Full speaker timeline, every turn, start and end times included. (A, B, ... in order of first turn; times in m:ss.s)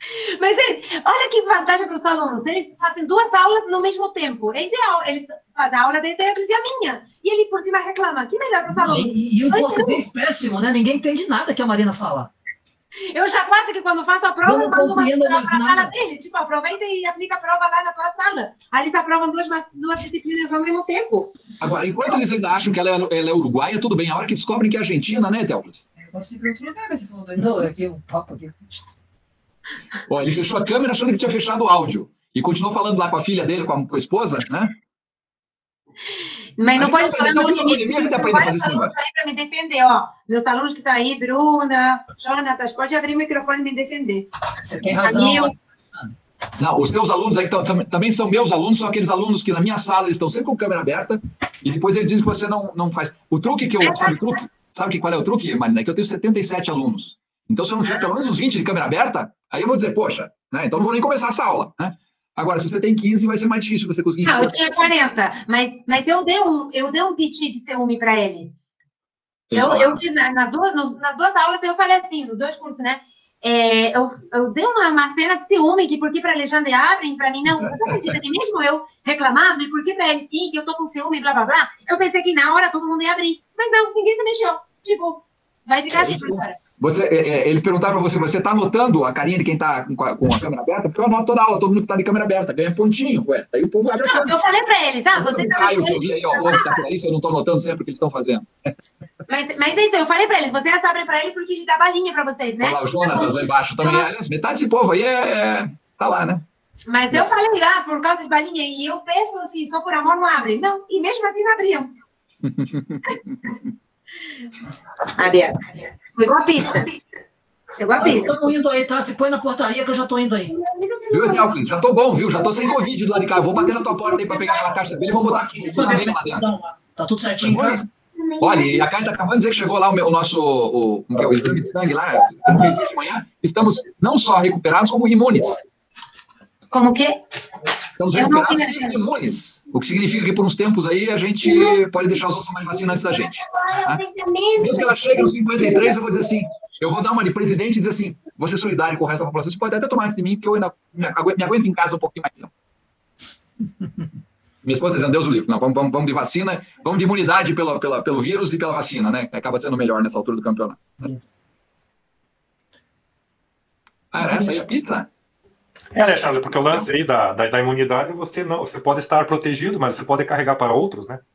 0:00.2-0:10.1 A
0:08.7-0:12.3 B
0:13.1-0:21.3 A
0:14.4-0:16.0 B
0:21.6-0:25.9 C
0:26.0-0:28.8 B
0:30.1-0:34.7 C
0:36.6-0:44.3 A
0:36.7-0:38.9 C
0:44.6-0:46.1 B
0:44.8-0:45.5 A
0:46.6-1:04.8 C
0:53.8-0:54.4 A
0:57.8-0:58.1 A
1:04.2-1:08.6 A
1:09.5-1:10.0 C
1:09.5-1:26.6 A
1:26.0-1:34.3 C
1:33.8-1:36.8 A
1:35.2-1:38.5 C
1:39.3-1:44.1 A
1:42.6-1:46.4 C
1:46.9-1:52.0 A
1:52.4-1:53.4 C
1:55.2-1:57.0 A
1:57.7-1:58.5 A
1:58.0-2:00.5 B
2:00.5-2:01.5 A
2:01.1-2:06.4 C
2:03.6-2:04.7 A
2:05.1-2:07.9 B
2:07.4-2:07.8 C
2:08.2-2:08.8 A
2:08.4-2:15.6 C
2:16.7-2:17.2 A
2:18.0-2:24.0 C
2:18.0-2:19.0 A
2:21.4-2:22.2 A
2:22.8-2:26.7 A
2:24.6-2:32.5 C
2:34.6-2:41.1 C
2:44.1-2:45.1 C
2:44.2-2:44.7 B
2:45.9-2:51.2 D